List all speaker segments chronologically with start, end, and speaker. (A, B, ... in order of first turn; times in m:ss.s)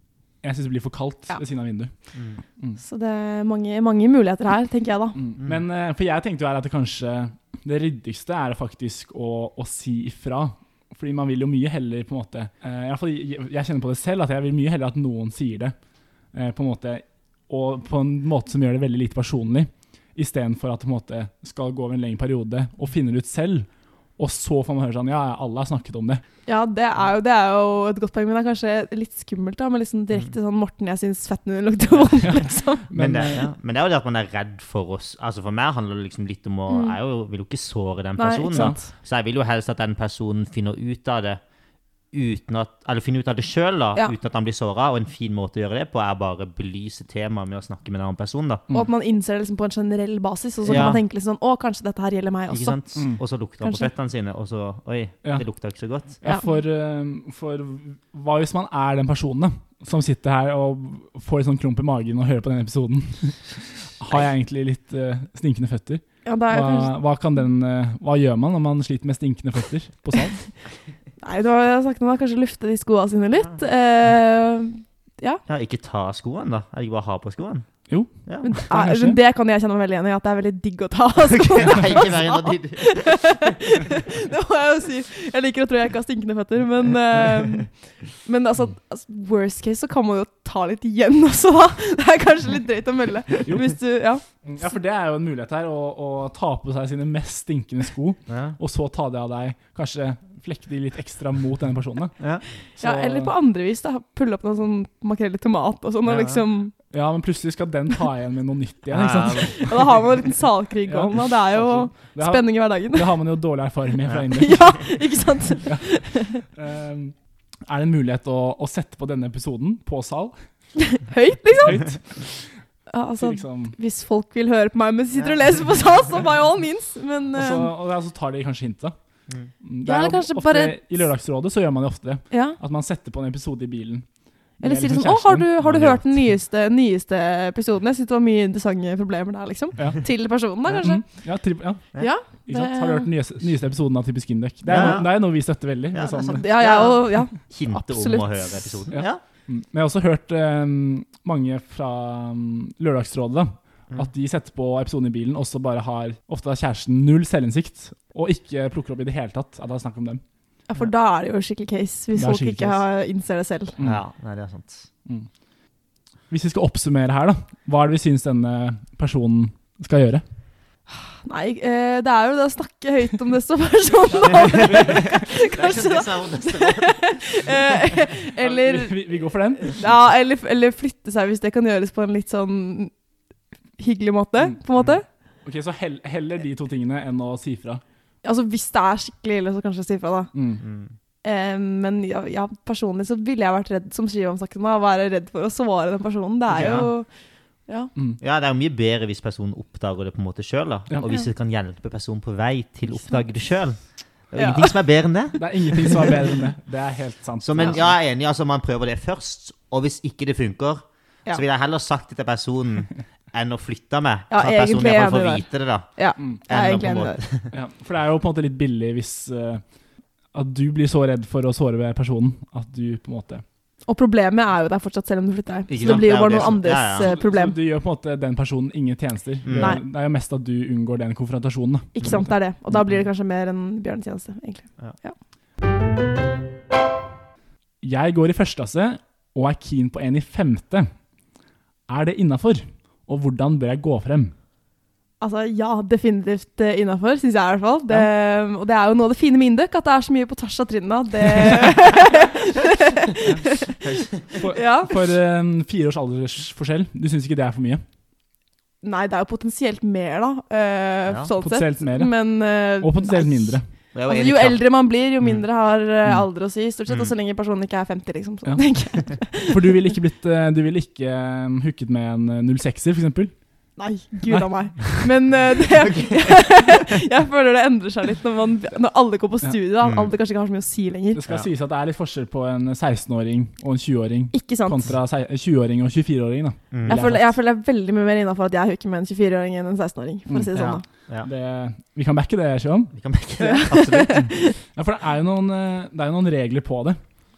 0:00.4-0:01.9 A
0:02.1-0:02.4 B
0:02.8-0:05.2 C
0:05.2-0:15.8 A
0:16.3-0:26.2 A
0:26.5-0:32.9 C
0:32.2-0:33.5 A
0:33.0-0:41.4 B
0:36.7-0:37.0 C
0:38.2-0:38.9 C
0:38.5-0:38.8 A
0:42.1-0:48.6 B
0:48.7-0:52.8 C
0:50.6-0:51.0 B
0:52.5-0:56.2 B
0:53.0-0:53.2 A
0:53.6-0:53.9 C
0:56.2-1:10.4 A
0:56.2-0:56.6 C
1:06.2-1:06.9 C
1:11.2-1:15.4 C
1:15.5-1:17.7 B
1:17.9-1:19.2 A
1:18.4-1:34.2 C
1:21.2-1:23.5 B
1:33.5-1:33.8 A
1:34.4-1:42.2 A
1:38.3-1:38.6 B
1:42.8-1:46.7 C
1:42.8-1:43.3 A
1:46.0-1:46.4 B
1:46.9-1:49.7 A
1:48.9-1:49.6 B
1:49.4-1:53.1 C
1:50.9-1:54.6 A
1:54.3-1:56.4 C
1:56.5-1:57.2 A
1:57.7-2:00.4 A
2:00.8-2:02.0 C
2:01.6-2:02.4 A
2:02.9-2:07.7 C
2:03.2-2:03.8 A
2:07.3-2:09.0 A
2:09.6-2:14.1 A
2:09.9-2:10.8 C
2:12.3-2:12.6 C
2:14.6-2:15.9 A
2:14.6-2:21.0 C
2:20.7-2:21.9 A
2:22.0-2:23.1 C
2:22.5-2:26.4 A
2:24.7-2:25.2 B
2:24.7-2:25.0 C
2:25.9-2:29.2 B
2:26.3-2:28.9 C
2:28.9-2:40.2 A
2:40.7-2:43.8 C
2:42.2-2:42.8 A
2:43.8-2:44.9 B
2:46.3-2:50.2 A
2:50.9-2:59.0 C
2:54.5-2:55.2 A
2:54.5-2:58.0 B
2:58.4-2:59.8 A
2:59.6-3:02.9 C
3:03.8-3:05.0 C
3:05.4-3:07.8 A
3:08.2-3:10.3 C
3:10.3-3:10.6 A
3:10.6-3:10.9 B
3:11.2-3:17.1 C
3:16.5-3:16.9 B
3:16.6-3:16.8 A
3:18.2-3:26.0 B
3:24.4-3:24.8 C
3:25.4-3:27.9 A
3:27.4-3:36.0 B
3:34.3-3:37.2 C
3:36.5-3:37.5 B
3:37.5-3:39.6 A
3:40.3-3:43.4 A
3:43.9-3:47.6 C
3:45.7-3:47.1 B
3:47.0-3:53.0 A
3:49.4-3:49.8 B
3:49.6-3:49.8 C
3:52.0-3:55.2 C
3:57.8-4:00.9 A
4:01.9-4:04.3 A
4:05.2-4:14.0 C
4:11.4-4:11.7 A
4:13.8-4:14.3 B
4:14.4-4:17.8 A
4:14.5-4:15.0 C
4:18.8-4:29.9 C
4:21.4-4:22.1 A
4:22.8-4:23.7 A
4:23.9-4:24.6 B
4:26.9-4:27.1 B
4:29.5-4:33.3 A
4:33.8-4:41.2 C
4:34.3-4:35.0 A
4:35.9-4:36.3 B
4:39.8-4:40.1 B
4:41.1-4:47.3 A
4:44.3-4:44.9 C
4:46.7-4:47.0 B
4:46.9-4:50.8 C
4:50.5-4:51.3 B
4:51.2-4:52.9 A
4:52.9-4:54.3 B
4:53.4-4:54.6 C
4:54.8-4:57.0 A